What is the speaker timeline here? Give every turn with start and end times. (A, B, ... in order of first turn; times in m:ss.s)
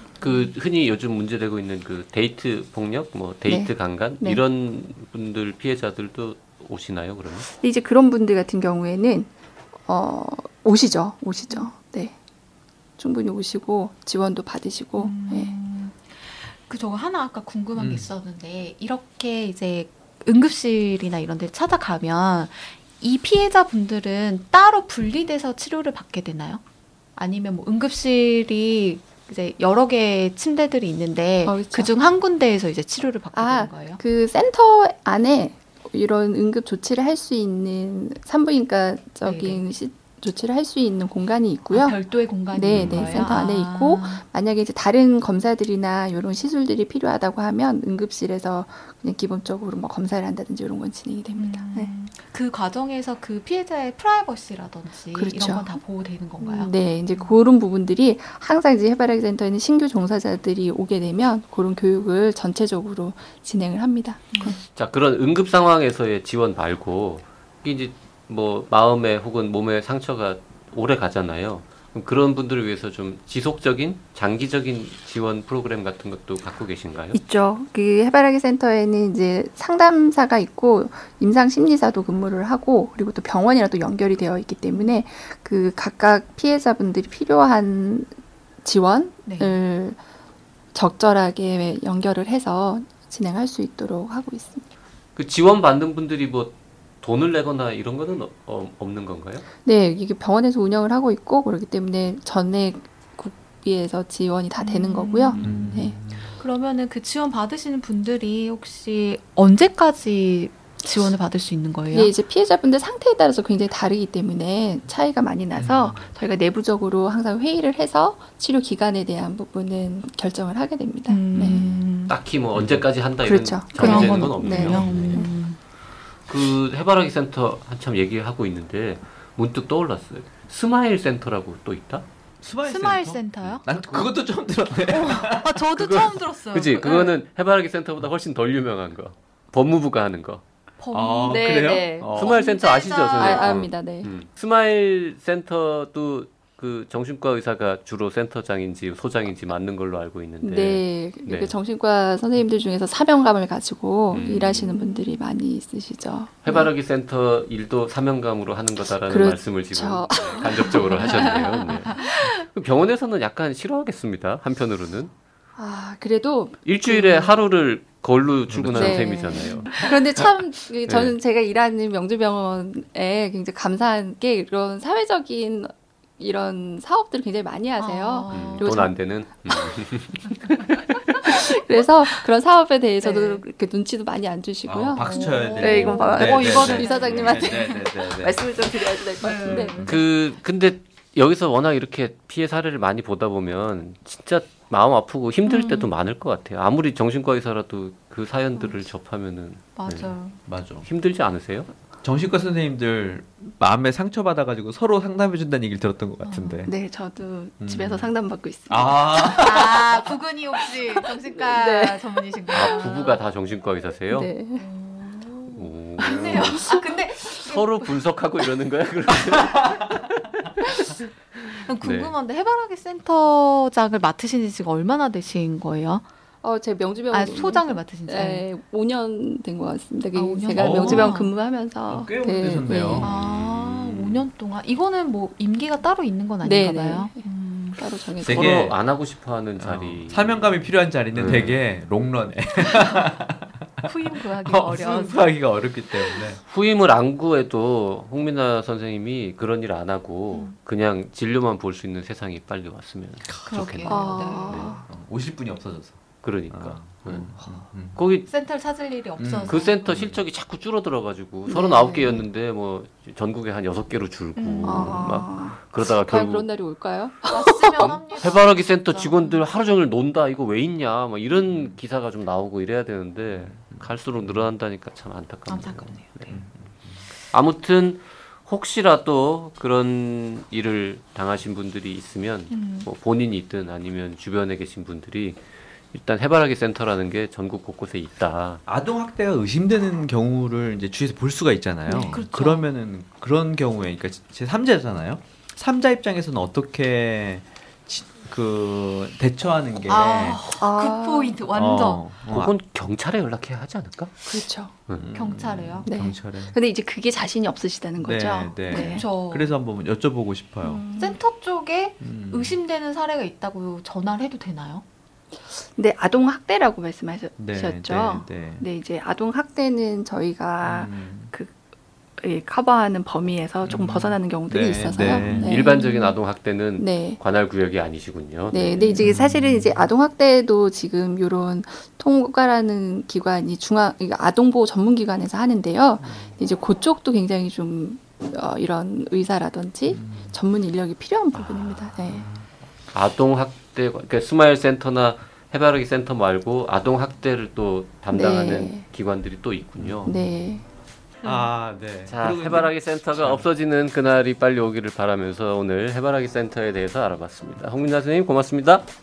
0:00.2-0:07.5 A
0:03.5-0:04.4 B
0:07.5-0:09.3 B
0:09.9-0:12.1 B
0:13.0-0:15.5 B
0:15.0-0:26.6 C
0:17.8-0:18.1 D
0:27.2-0:34.0 C
0:31.4-0:31.9 B
0:33.3-0:42.0 B
0:39.2-0:39.6 C
0:41.7-0:44.2 C
0:42.5-0:51.9 B
0:42.7-0:43.1 D
0:51.4-0:57.3 C
0:55.1-0:55.8 B
0:56.4-1:04.6 B
1:04.7-1:17.2 A
1:17.1-1:28.1 B
1:28.6-1:30.0 B
1:29.2-1:29.6 C
1:30.7-1:34.6 B
1:35.2-1:39.4 A
1:39.6-1:46.0 B
1:44.6-1:45.6 C
1:45.4-1:46.3 D
1:46.4-1:52.1 C
1:51.9-2:01.7 B
1:55.6-1:56.0 D
2:01.1-2:02.2 C
2:01.4-2:05.2 A
2:02.6-2:02.8 D
2:03.2-2:05.3 B
2:03.8-2:05.6 C
2:06.3-2:12.1 A
2:12.4-2:15.6 D
2:12.6-2:13.6 C
2:13.5-2:14.2 A
2:14.9-2:17.2 C
2:15.8-2:20.4 A
2:20.8-2:21.6 C
2:20.9-2:22.4 D
2:21.3-2:22.1 B
2:22.1-2:31.5 A
2:22.2-2:23.6 C
2:23.2-2:24.1 B
2:30.4-2:36.7 B
2:34.1-2:34.7 A
2:34.2-2:35.1 C
2:36.4-2:45.1 A
2:39.0-2:41.6 B
2:40.1-2:40.4 D
2:41.1-2:42.2 C
2:45.6-2:47.4 B
2:46.6-2:49.8 A
2:48.5-2:49.0 D
2:48.7-2:58.9 B
2:49.6-2:50.0 D
2:50.9-2:51.2 A
2:57.8-2:58.7 C
2:58.3-3:00.5 A
3:00.5-3:09.9 B
3:03.0-3:03.4 C
3:04.6-3:08.5 D
3:05.0-3:07.9 C
3:09.2-3:10.1 C
3:09.8-3:20.1 A
3:15.5-3:15.9 C
3:19.8-3:20.4 C
3:20.5-3:20.9 D
3:20.8-3:21.7 A
3:22.0-3:26.7 D
3:26.2-3:26.7 C
3:26.7-3:29.5 B
3:27.6-3:28.1 D
3:28.7-3:30.1 D
3:29.4-3:33.2 C
3:31.0-3:32.0 B
3:32.5-3:34.3 A
3:34.1-3:34.7 B
3:34.6-3:38.0 C
3:35.5-3:36.7 A
3:36.3-3:36.8 B
3:37.3-3:40.6 A
3:41.6-3:46.0 C
3:41.8-3:42.1 A
3:46.4-3:53.1 B
3:47.1-3:48.5 C
3:50.1-3:51.3 C
3:50.5-3:51.2 D
3:51.8-3:54.2 D
3:53.0-3:57.8 C
3:56.4-3:57.3 B
3:57.8-3:58.7 B
3:58.2-3:58.8 D
3:58.2-4:00.6 A
3:59.6-4:03.9 D
4:01.1-4:01.6 A
4:02.7-4:03.0 C
4:03.8-4:05.4 C
4:04.4-4:06.4 D
4:06.4-4:14.0 A
4:13.5-4:14.8 C
4:13.9-4:14.8 B
4:14.4-4:18.0 D
4:16.2-4:17.3 A
4:17.9-4:18.3 A
4:18.2-4:20.0 C
4:19.2-4:20.2 D
4:19.5-4:26.5 A
4:21.5-4:22.2 B
4:24.4-4:25.1 C
4:24.6-4:28.0 B
4:27.3-4:29.4 C
4:27.8-4:36.4 A
4:35.5-4:36.0 C
4:37.3-4:45.4 A
4:42.5-4:42.9 C
4:45.9-4:48.6 A
4:48.7-5:00.4 D
4:51.9-4:52.7 C
4:51.9-4:52.2 B
4:59.9-5:02.0 C
5:00.6-5:01.4 B
5:01.5-5:02.5 D
5:02.3-5:05.1 A
5:04.3-5:04.8 B
5:05.0-5:06.6 D
5:05.1-5:05.9 C
5:05.8-5:09.0 B
5:08.0-5:10.8 D
5:08.7-5:09.6 C
5:10.6-5:11.2 B
5:11.0-5:14.8 C
5:12.0-5:12.6 D
5:15.8-5:21.5 B
5:17.4-5:18.6 D
5:20.6-5:21.3 D
5:22.2-5:26.0 B
5:23.6-5:25.6 D
5:25.3-5:29.0 A
5:25.8-5:26.1 C
5:26.8-5:27.2 B
5:28.5-5:42.3 B
5:29.0-5:29.7 D
5:39.9-5:40.4 D
5:41.3-5:42.4 D
5:42.9-5:50.2 A
5:48.1-5:48.8 B
5:49.8-5:50.2 D
5:50.0-5:50.6 B
5:51.2-5:53.5 D
5:51.2-5:51.5 C
5:52.1-5:58.8 A